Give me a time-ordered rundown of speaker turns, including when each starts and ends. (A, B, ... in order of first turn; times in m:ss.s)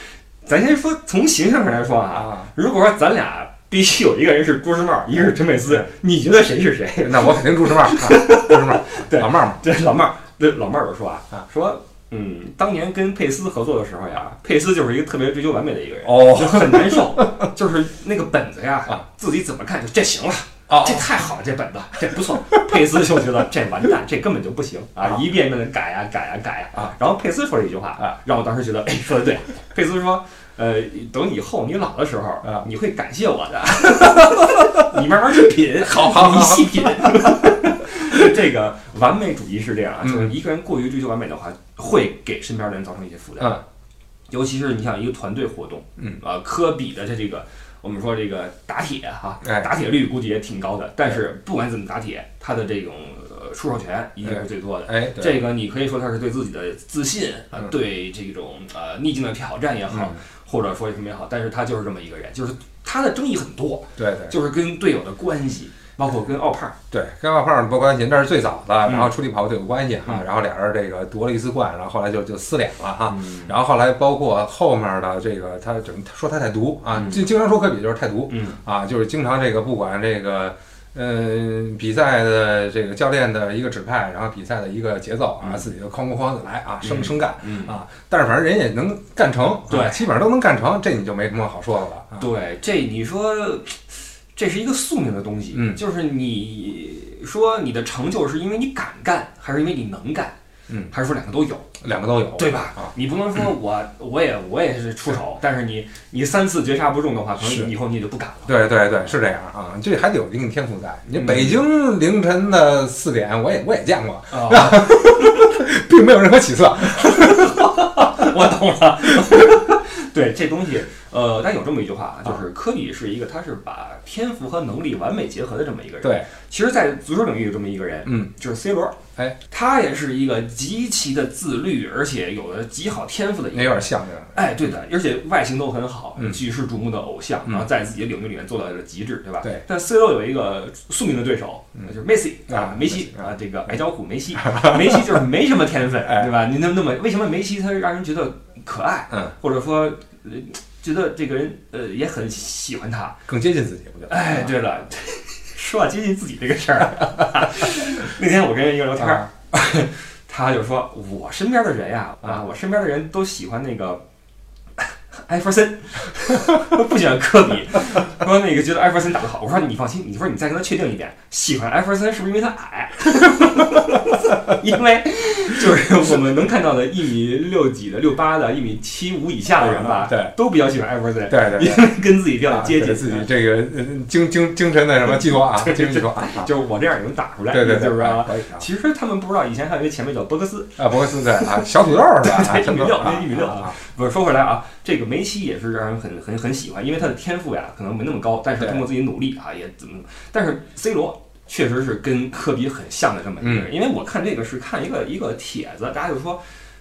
0:00.4-0:43.6 A
0:02.1-0:02.5 B
0:07.0-0:09.6 B
0:16.0-0:17.5 B
0:20.7-0:21.1 B
0:35.8-0:37.5 B
0:40.0-0:40.3 B
0:44.3-1:06.8 A
0:49.4-0:49.7 B
0:54.2-0:55.4 B
0:59.9-1:00.2 B
1:04.0-1:04.4 B
1:06.9-1:32.2 B
1:08.8-1:09.1 A
1:13.1-1:13.6 A
1:16.9-1:17.2 A
1:18.3-1:18.6 A
1:25.4-1:25.7 A
1:26.8-1:27.7 A
1:29.7-1:30.0 A
1:32.2-1:40.4 A
1:35.5-1:35.8 B
1:40.9-1:41.7 A
1:41.8-1:42.9 B
1:42.4-1:49.1 A
1:47.4-1:47.7 B
1:48.4-1:57.7 B
1:51.1-1:51.6 A
1:54.3-1:55.0 A
1:57.1-2:09.0 A
2:06.0-2:06.3 B
2:08.0-2:08.3 B
2:09.5-2:33.2 A
2:13.5-2:14.4 B
2:22.5-2:23.3 B
2:24.4-2:25.1 B
2:33.3-2:34.5 B
2:34.1-2:44.0 A
2:44.8-3:03.3 A
2:59.6-3:00.3 B
3:01.3-3:06.5 B
3:05.2-3:26.4 A
3:07.5-3:08.6 B
3:10.8-3:13.7 B
3:18.6-3:18.8 B
3:23.4-3:23.7 B